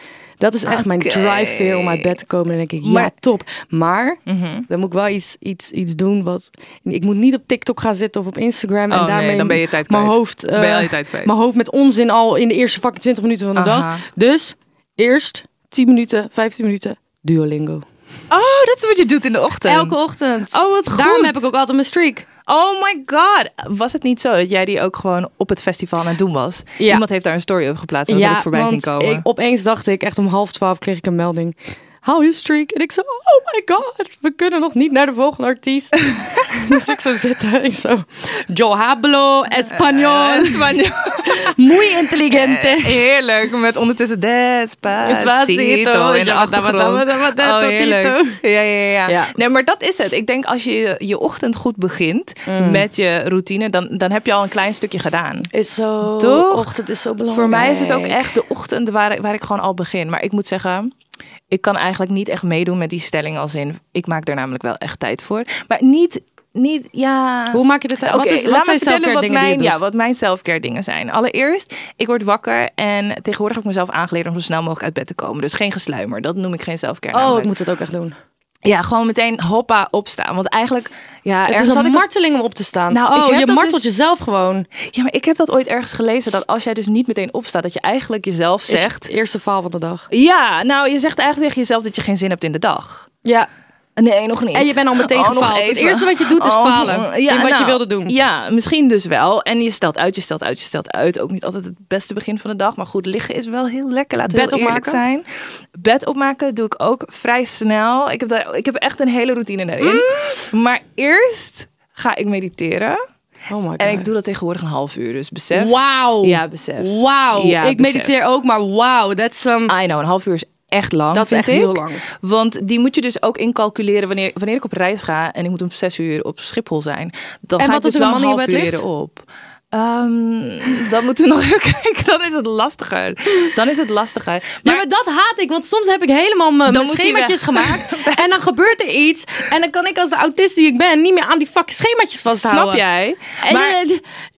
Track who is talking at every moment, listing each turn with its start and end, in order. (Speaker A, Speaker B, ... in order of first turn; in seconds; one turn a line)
Speaker A: 0.4-17.9
Speaker B: 0.7-2.1
Speaker B: 2.8-3.1
Speaker B: 4.3-4.7
Speaker B: 8.9-11.3
Speaker B: 13.6-14.0
Speaker B: 18.3-19.9
Speaker A: 19.7-22.3
Speaker B: 20.5-21.4
Speaker B: 22.5-29.2
Speaker A: 28.1-43.0
Speaker B: 36.1-36.9
Speaker B: 39.7-55.5
Speaker A: 45.0-48.4
Speaker A: 49.1-49.3
Speaker A: 52.5-52.8
Speaker A: 55.5-58.3
Speaker B: 56.1-56.7
Speaker B: 57.3-60.9
Speaker B: 61.5-77.5
Speaker A: 67.5-69.8
Speaker A: 77.1-78.2
Speaker B: 78.7-82.1
Speaker A: 81.5-84.7
Speaker B: 82.9-83.9
Speaker B: 84.8-89.1
Speaker A: 88.7-90.1
Speaker B: 90.1-93.1
Speaker A: 93.2-93.5
Speaker B: 94.0-105.2
Speaker A: 94.5-98.2
Speaker A: 104.3-105.0
Speaker B: 105.8-113.0
Speaker A: 109.8-110.3
Speaker A: 113.5-114.1
Speaker B: 113.8-118.2
Speaker A: 115.5-119.7
Speaker B: 119.7-134.8
Speaker A: 121.1-122.0
Speaker A: 127.6-128.8
Speaker A: 134.6-142.8
Speaker B: 136.7-138.3
Speaker B: 142.3-143.8
Speaker A: 143.4-144.0